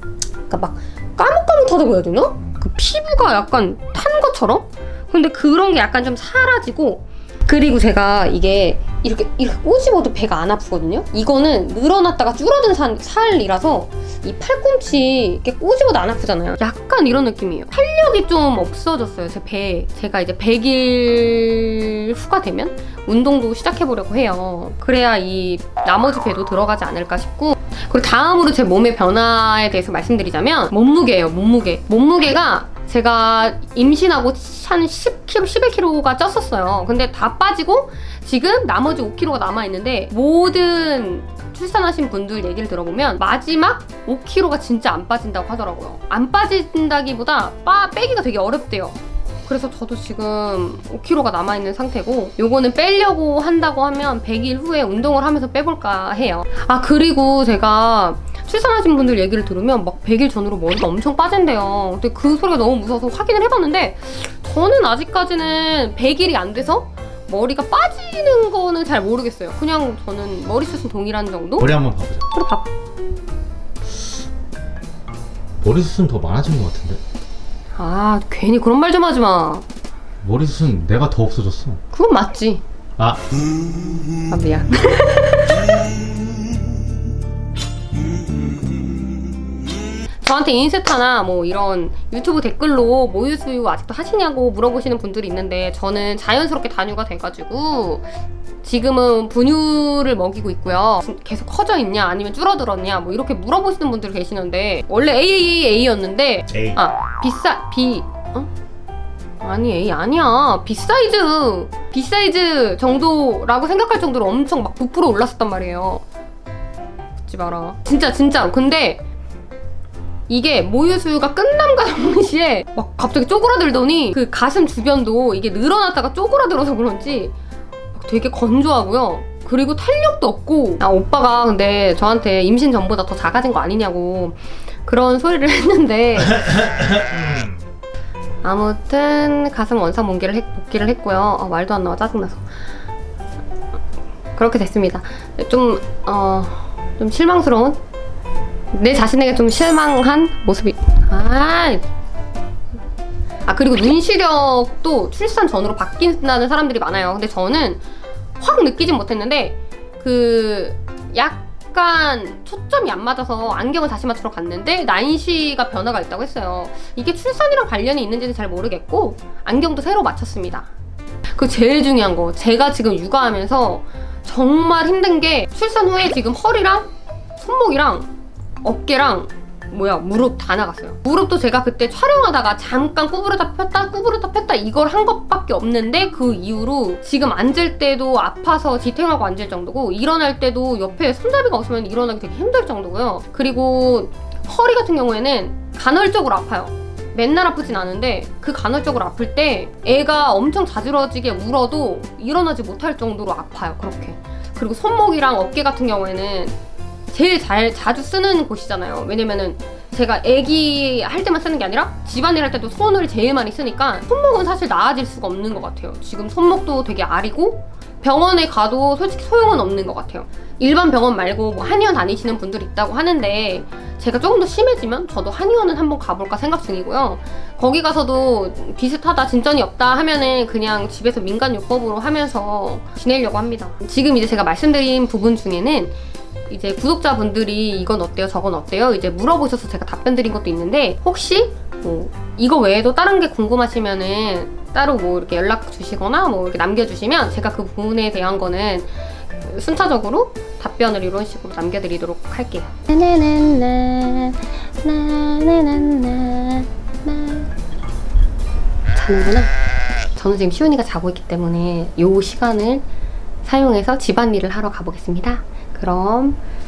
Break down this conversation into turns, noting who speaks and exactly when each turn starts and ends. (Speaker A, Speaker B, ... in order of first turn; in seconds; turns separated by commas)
Speaker A: 0.5-71.7, Speaker B: 71.6-72.3, Speaker A: 72.3-72.7, Speaker B: 75.6-77.0, Speaker A: 77.8-79.6, Speaker B: 80.2-81.8, Speaker A: 81.9-82.6, Speaker A: 84.3-85.6, Speaker A: 90.2-98.0, Speaker A: 98.6-108.5, Speaker B: 106.5-106.8, Speaker A: 109.4-116.0, Speaker A: 117.2-119.0, Speaker A: 120.3-127.3, Speaker A: 127.9-136.9, Speaker B: 136.8-137.5, Speaker A: 138.4-142.4, Speaker A: 144.3-147.8, Speaker A: 148.7-151.8, Speaker A: 153.4-157.8, Speaker A: 158.4-170.7, Speaker A: 171.3-178.1, Speaker A: 178.6-206.6, Speaker A: 207.1-235.9, Speaker A: 236.5-248.9, Speaker A: 249.4-257.5, Speaker A: 258.9-259.5, Speaker A: 260.1-262.8, Speaker A: 263.4-266.4